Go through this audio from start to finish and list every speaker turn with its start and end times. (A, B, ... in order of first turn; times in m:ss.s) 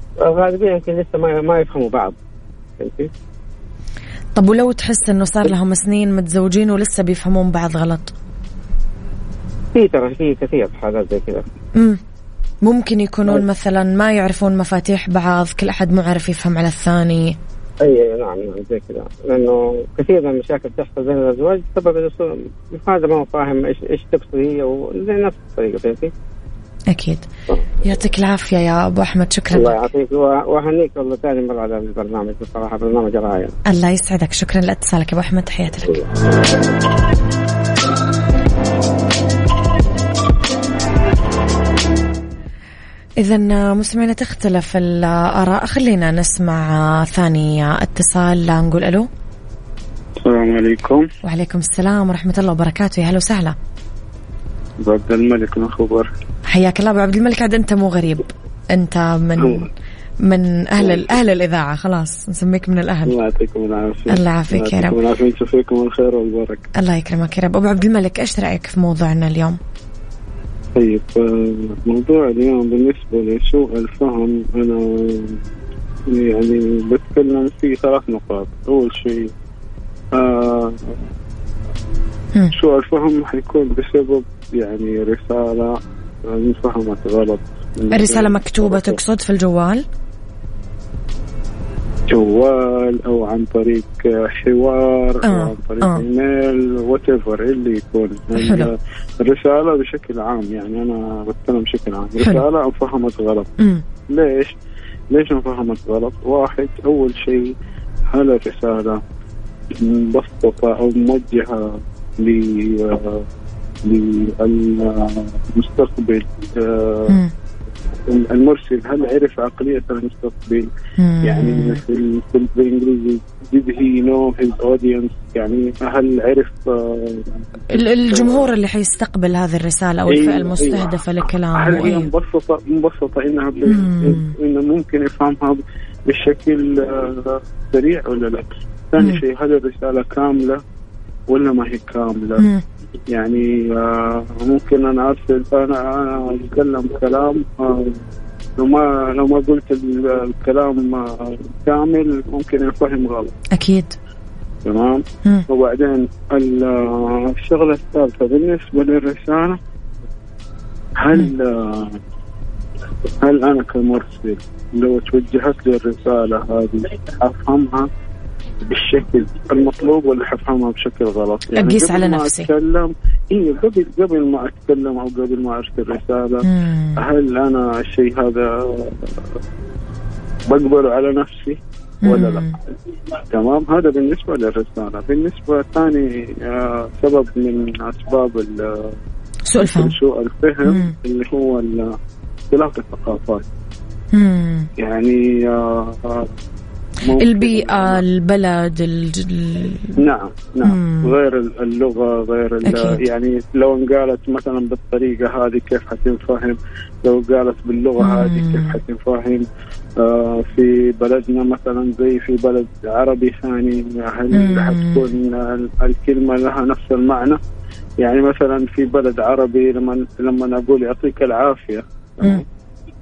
0:00.2-0:02.2 A
0:02.8-0:03.1 A
0:04.4-0:08.1 B
0:09.7-0:11.4 A
0:12.6-0:17.4 B
0:17.8-0:26.1 A
0:26.9-0:27.3 B
0:27.8-0:29.9 B
0:29.5-0:33.6 A
0:33.7-0:36.0 B
0:43.2-0:49.1 B
0:50.2-0:51.1 C
0:51.2-0:53.6 B
0:54.8-0:56.1 C
0:56.5-0:59.7 B
0:59.4-0:59.7 C
1:00.2-1:03.2 B
1:03.1-1:06.7 C
1:04.1-1:05.0 B
1:06.8-1:09.6 B
1:10.8-1:15.4 C
1:16.1-1:19.3 C
1:20.1-1:21.0 C
1:22.5-1:29.0 C
1:27.9-1:29.8 B
1:32.1-1:43.5 C
1:35.2-1:36.0 B
1:38.4-1:38.7 B
1:42.2-1:42.4 B
1:43.6-1:43.8 B
1:44.1-1:44.5 C
1:45.1-1:47.5 C
1:48.1-1:49.0 C
1:49.7-1:53.2 C
1:53.8-1:57.2 C
1:57.1-1:57.3 B
1:58.1-2:00.7 C
2:01.0-2:01.8 B
2:01.2-2:07.5 C
2:07.7-2:12.1 B
2:08.1-2:08.5 C
2:10.1-2:11.0 C
2:11.6-2:20.6 C
2:13.7-2:14.3 B
2:21.3-2:22.5 C
2:22.4-2:22.6 B
2:23.1-2:28.0 C
2:28.6-2:33.3 C
2:33.5-2:34.0 B
2:34.7-2:39.6 C
2:41.0-2:42.0 C
2:43.2-2:47.9 C
2:48.6-2:59.3 C
2:51.5-2:52.5 B
2:56.4-2:57.0 B
3:00.5-3:02.4 C
3:02.0-3:02.6 B
3:03.3-3:09.0 C
3:09.5-3:10.0 B
3:09.6-3:11.9 C
3:10.6-3:11.0 B
3:12.5-3:13.5 C
3:14.1-3:14.7 B
3:14.8-3:16.3 C
3:17.0-3:18.0 C
3:17.2-3:20.0 B
3:20.0-3:29.5 C
3:20.6-3:21.2 B
3:22.6-3:23.0 B
3:28.0-3:28.8 B
3:30.0-3:37.4 C
3:34.3-3:35.1 B
3:38.0-3:42.4 C